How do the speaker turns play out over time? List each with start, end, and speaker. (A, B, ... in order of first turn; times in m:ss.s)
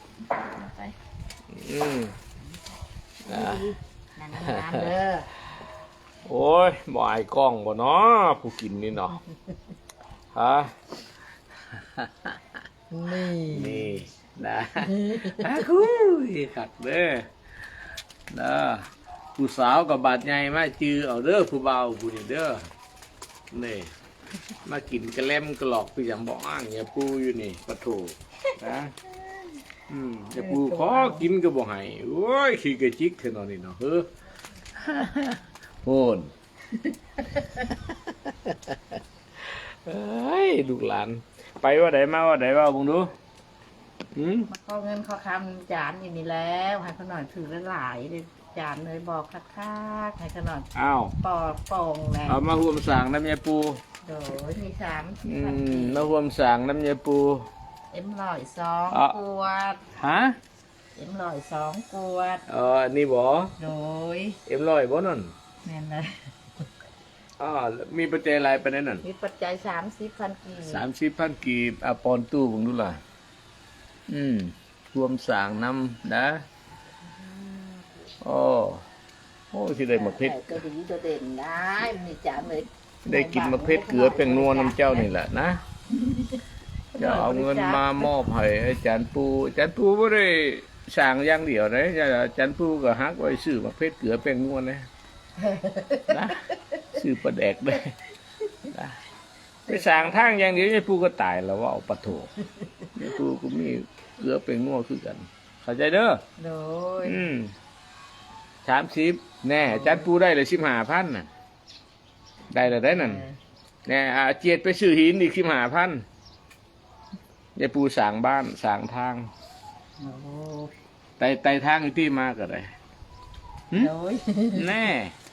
0:00.4-0:00.9 A
0:01.5-0:02.2 B
0:03.2-0:03.6 B
0:03.3-0:05.3 A
0:04.4-0:04.8 B
0:06.2-0:09.2 B
0:10.3-0:10.7 B
0:11.7-0:12.4 B
0:12.9-0:13.9 A
0:13.4-0:17.3 B
0:14.8-0:15.4 A
0:18.3-0:22.7 B
0:23.5-0:23.9 B
0:24.6-0:28.9 B
0:29.9-0:34.1 B
0:30.3-0:31.3 A
0:34.8-0:36.3 B
0:37.2-0:37.5 A
0:37.6-0:39.0 B
0:39.5-0:43.1 B
0:44.1-0:44.5 B
0:44.5-0:52.4 A
0:50.7-0:51.1 B
0:52.2-0:53.8 B
0:54.0-0:56.1 A
0:55.2-0:57.4 B
0:57.9-0:59.8 A
0:58.9-0:59.2 B
0:59.9-1:00.4 B
1:00.9-1:02.4 A
1:02.5-1:03.5 B
1:03.6-1:04.4 A
1:04.4-1:05.3 B
1:05.6-1:06.1 A
1:07.4-1:09.0 B
1:09.0-1:10.9 A
1:10.6-1:13.0 B
1:14.1-1:16.4 B
1:17.2-1:17.8 A
1:18.2-1:18.8 B
1:19.5-1:20.6 B
1:19.7-1:25.1 A
1:23.0-1:25.6 B
1:26.0-1:26.3 A
1:26.9-1:28.1 A
1:27.0-1:34.8 B
1:35.4-1:36.3 A
1:36.1-1:37.9 B
1:38.7-1:39.0 B
1:39.7-1:40.6 A
1:39.7-1:42.3 B
1:42.9-1:46.2 B
1:46.4-1:47.3 A
1:47.0-1:47.5 B
1:48.6-1:51.3 B
1:49.6-1:50.1 A
1:52.5-1:53.2 B
1:52.7-1:53.4 A
1:53.8-1:56.0 B
1:57.6-1:59.3 B
2:00.0-2:00.7 A
2:01.2-2:02.7 B
2:03.7-2:04.9 A
2:04.5-2:05.1 B